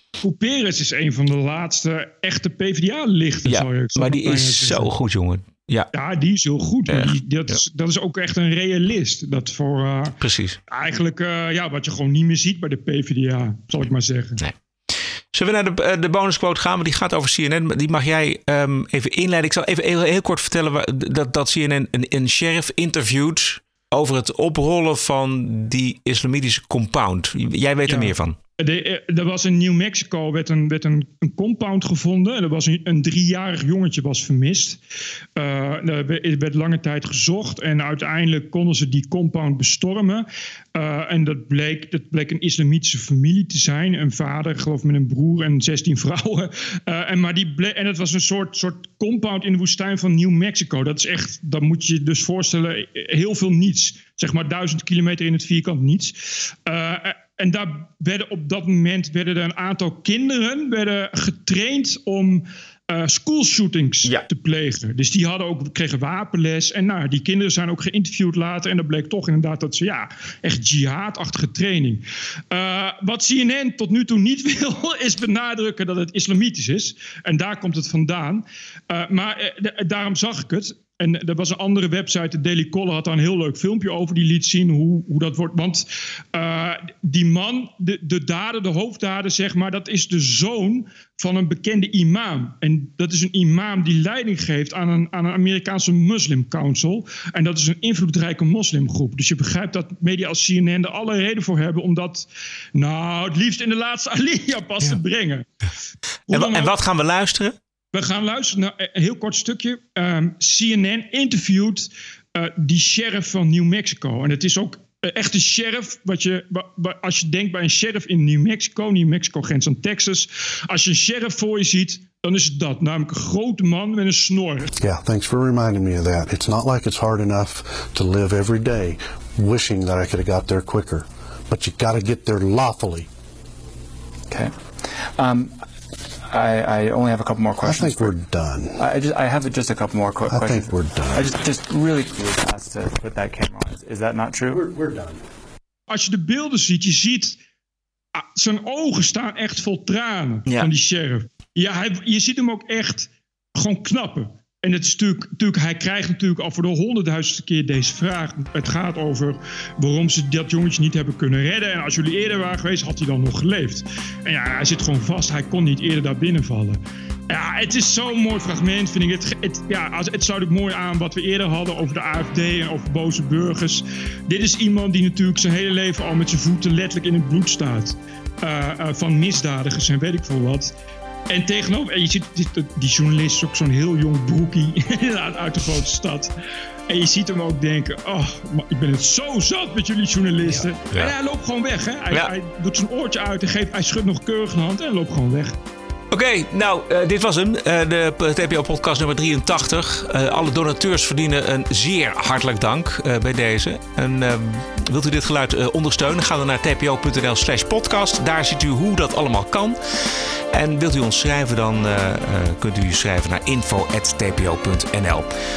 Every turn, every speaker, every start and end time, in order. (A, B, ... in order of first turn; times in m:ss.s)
0:00.2-0:04.9 A
0:03.4-0:05.9 B
0:05.9-0:10.2 A
0:06.9-0:07.6 B
0:10.2-0:10.6 B
0:10.7-0:14.4 A
0:14.4-0:28.4 B
0:27.9-0:34.8 A
0:35.4-1:45.5 A
1:46.3-1:46.7 A
1:46.3-1:47.6 B
1:47.9-2:04.7 A
2:04.8-2:13.1 C
2:14.3-2:15.5 D
2:16.3-2:18.2 D
2:17.6-2:18.8 C
2:18.8-2:24.7 D
2:20.3-2:21.3 C
2:24.5-2:25.2 C
2:25.9-2:27.4 A
2:28.1-3:00.7 A
3:01.3-3:06.3 A
3:06.9-3:15.6 A
3:10.5-3:11.1 B
3:16.1-3:29.8 B
3:30.5-3:35.3 B